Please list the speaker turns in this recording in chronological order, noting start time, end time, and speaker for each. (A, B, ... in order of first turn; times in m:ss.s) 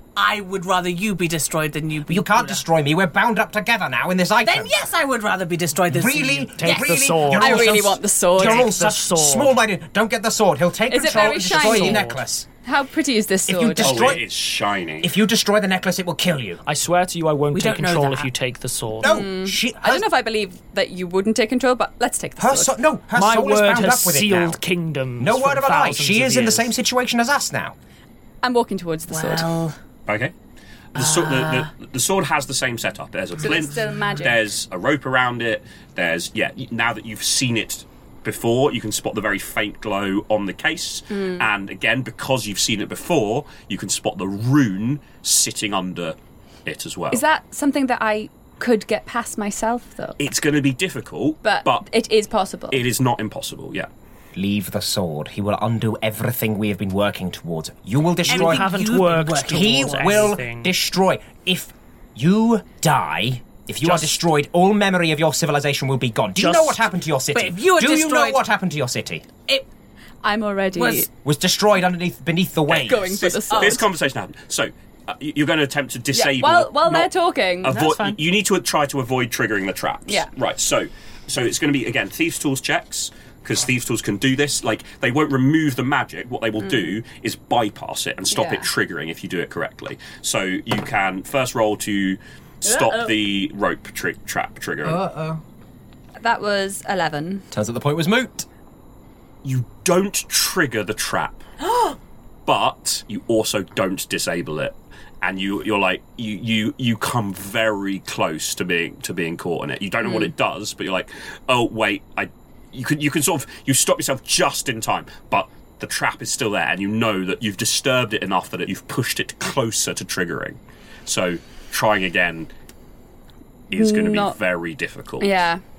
0:00.2-0:02.6 A
0:02.1-0:04.8 B
0:04.4-0:07.4 A
0:05.9-0:12.5 B
0:06.6-0:07.8 C
0:07.3-0:08.7 D
0:08.4-0:09.6 C
0:10.9-0:12.1 D
0:11.3-0:12.2 C
0:12.6-0:14.2 D
0:13.5-0:14.3 B
0:13.8-0:15.1 E
0:15.0-0:16.6 B
0:16.6-0:19.2 C
0:17.5-0:18.3 A
0:19.0-0:20.1 B
0:19.0-0:22.8 D
0:22.4-0:24.6 B
0:23.2-0:26.7 C
0:25.2-0:27.8 B
0:28.4-0:29.6 D
0:29.1-0:29.8 A
0:30.1-0:30.3 E
0:30.9-0:47.2 E
0:31.0-0:31.7 A
0:33.4-0:34.4 D
0:41.1-0:41.5 D
0:47.1-0:50.2 D
0:50.2-0:51.9 E
0:51.4-0:52.8 D
0:52.7-0:53.9 E
0:54.4-1:09.3 B
0:58.2-1:00.4 A
0:58.3-1:00.7 C
1:03.8-1:04.2 C
1:06.4-1:06.8 C
1:07.3-1:08.4 A
1:10.2-1:11.1 D
1:10.7-1:11.1 A
1:11.2-1:13.2 B
1:12.7-1:13.9 D
1:13.0-1:17.1 E
1:13.5-1:13.8 A
1:16.1-1:17.8 D
1:17.6-1:35.0 E
1:17.7-1:18.2 C
1:26.6-1:27.0 D
1:28.3-1:28.7 D
1:32.6-1:33.1 D
1:34.8-1:35.4 B
1:36.2-1:37.4 D
1:37.5-1:38.5 B
1:39.4-1:41.4 E
1:41.6-1:42.0 A
1:42.5-2:02.5 E
1:50.0-1:50.3 D
2:03.7-2:05.3 E
2:03.7-2:04.4 D
2:05.2-2:05.6 D